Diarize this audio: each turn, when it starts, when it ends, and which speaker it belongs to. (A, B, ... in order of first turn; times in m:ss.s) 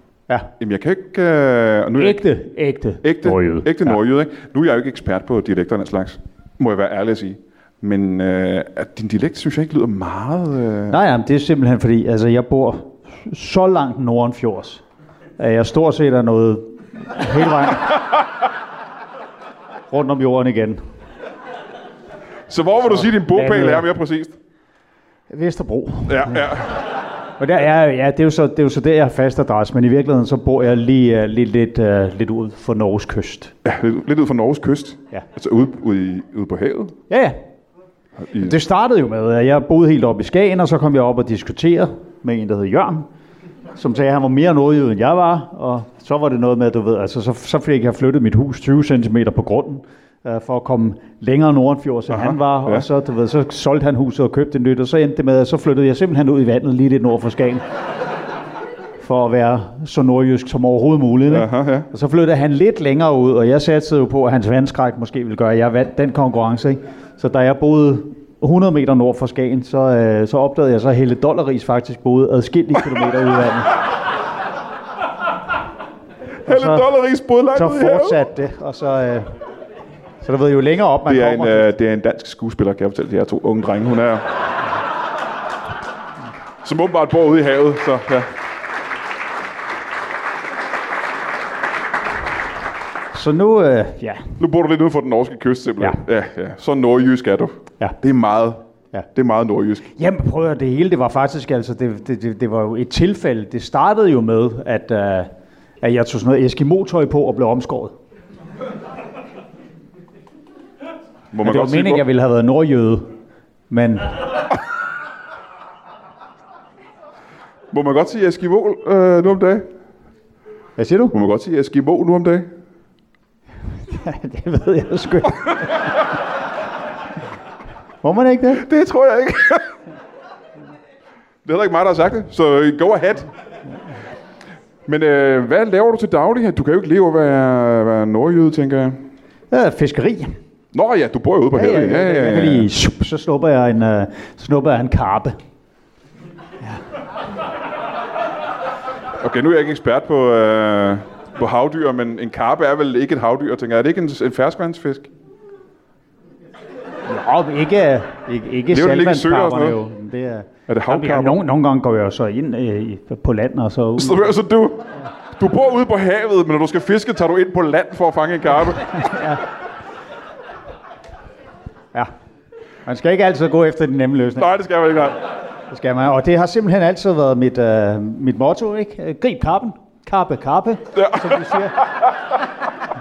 0:00.6-0:02.2 A
0:02.0-0:04.0 B
0:03.0-0:11.0 A
0:10.9-0:14.8 B
0:15.4-0:18.1 B
0:19.9-0:20.8 B
0:22.5-0:24.4 A
0:22.8-0:23.9 B
0:25.3-0:26.6 B
0:26.1-0:26.8 A
0:27.4-0:33.5 B
0:33.6-0:37.0 A
0:37.1-0:37.4 B
0:38.2-0:38.5 A
0:38.3-0:43.1 B
0:43.8-0:57.6 B
0:52.1-0:52.9 A
0:59.0-1:13.8 B
1:01.3-1:01.9 A
1:16.4-1:18.2 A
1:16.4-1:16.9 B
1:17.5-1:19.3 B
1:20.2-1:21.7 B
1:21.1-1:24.2 A
1:26.6-1:28.3 A
1:33.1-1:34.4 B
1:34.4-1:39.9 A
1:40.0-1:47.9 B
1:51.3-1:52.0 A
1:51.4-1:53.1 B
1:53.7-1:54.2 B
1:57.7-1:59.7 A
2:00.8-2:01.1 B
2:01.1-2:02.5 A
2:03.8-2:06.0 B
2:08.0-2:08.6 B
2:08.5-2:09.8 A
2:11.4-2:13.3 A
2:14.9-2:19.0 A
2:19.5-2:20.4 B
2:20.7-2:22.7 A
2:21.5-2:25.4 B
2:29.2-2:35.1 A
2:37.1-2:44.4 B
2:38.7-2:39.8 A
2:40.7-2:41.4 A
2:44.0-2:49.3 A
2:48.8-2:49.4 B
2:52.8-2:54.6 B
2:54.4-2:55.2 A
2:55.7-3:01.8 B
3:00.9-3:02.1 A